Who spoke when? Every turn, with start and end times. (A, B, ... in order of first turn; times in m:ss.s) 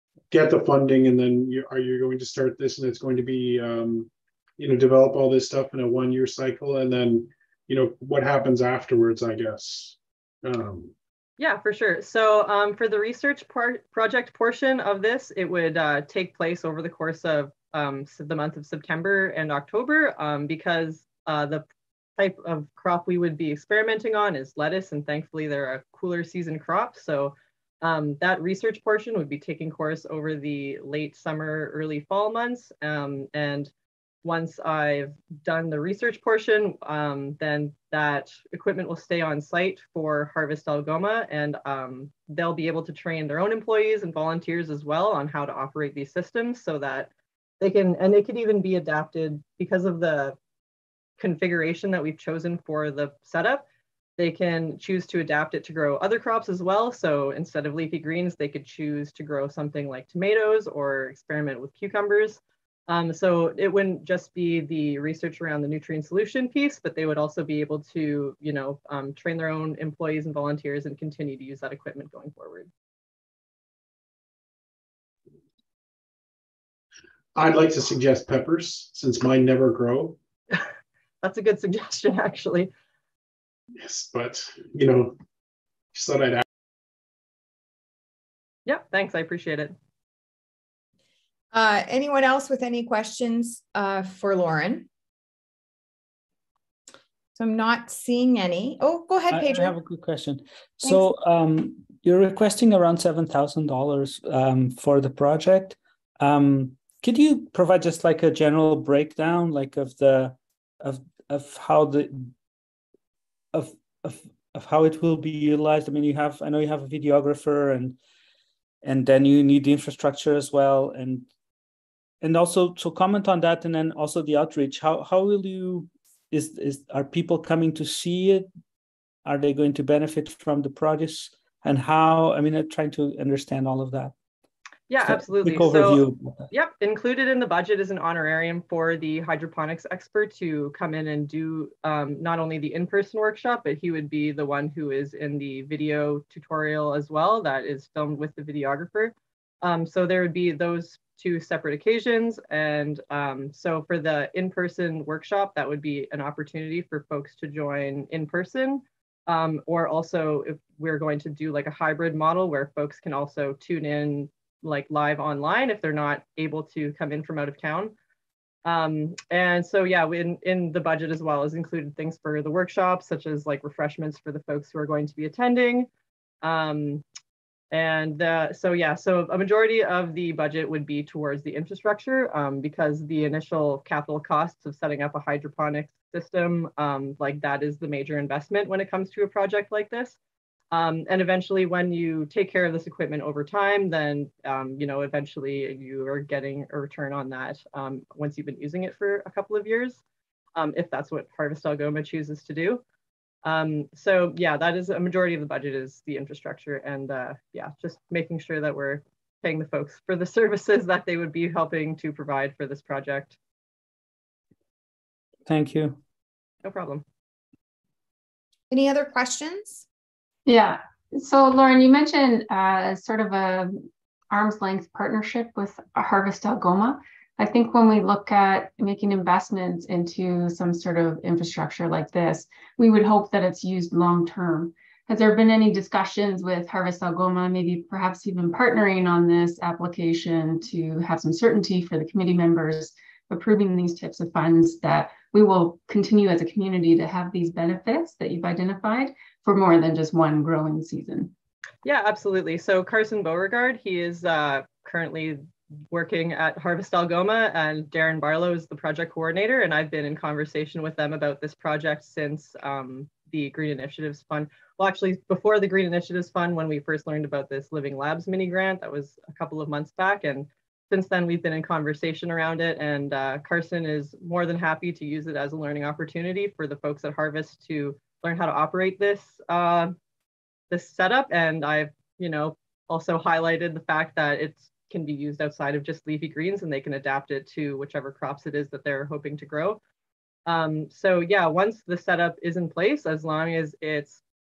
0:00.3-0:10.9 A
0:11.4-0:21.6 B
0:22.2-0:33.7 B
0:34.2-0:50.4 B
0:51.2-0:53.6 B
0:54.2-1:12.7 B
1:17.3-1:20.2 A
1:21.2-1:22.7 B
1:23.8-1:25.1 A
1:25.9-1:26.4 A
1:28.6-1:29.7 B
1:31.5-1:34.9 C
1:37.4-1:39.7 C
1:39.3-1:52.3 D
1:53.5-1:58.0 D
1:58.8-2:01.3 D
2:02.2-2:08.5 D
2:09.2-2:14.1 D
2:14.9-2:47.9 B
2:15.0-2:16.5 D
2:48.6-2:55.9 B
2:56.4-2:57.0 B
2:57.7-3:10.2 B
3:10.7-3:20.0 B
3:20.5-3:22.8 B
3:23.4-3:33.4 B
3:35.4-3:36.0 D
3:36.6-3:37.0 B
3:38.7-3:39.8 C
3:40.4-4:11.3 E
4:11.8-4:39.9 B
4:40.7-4:49.8 B
4:50.4-4:54.2 B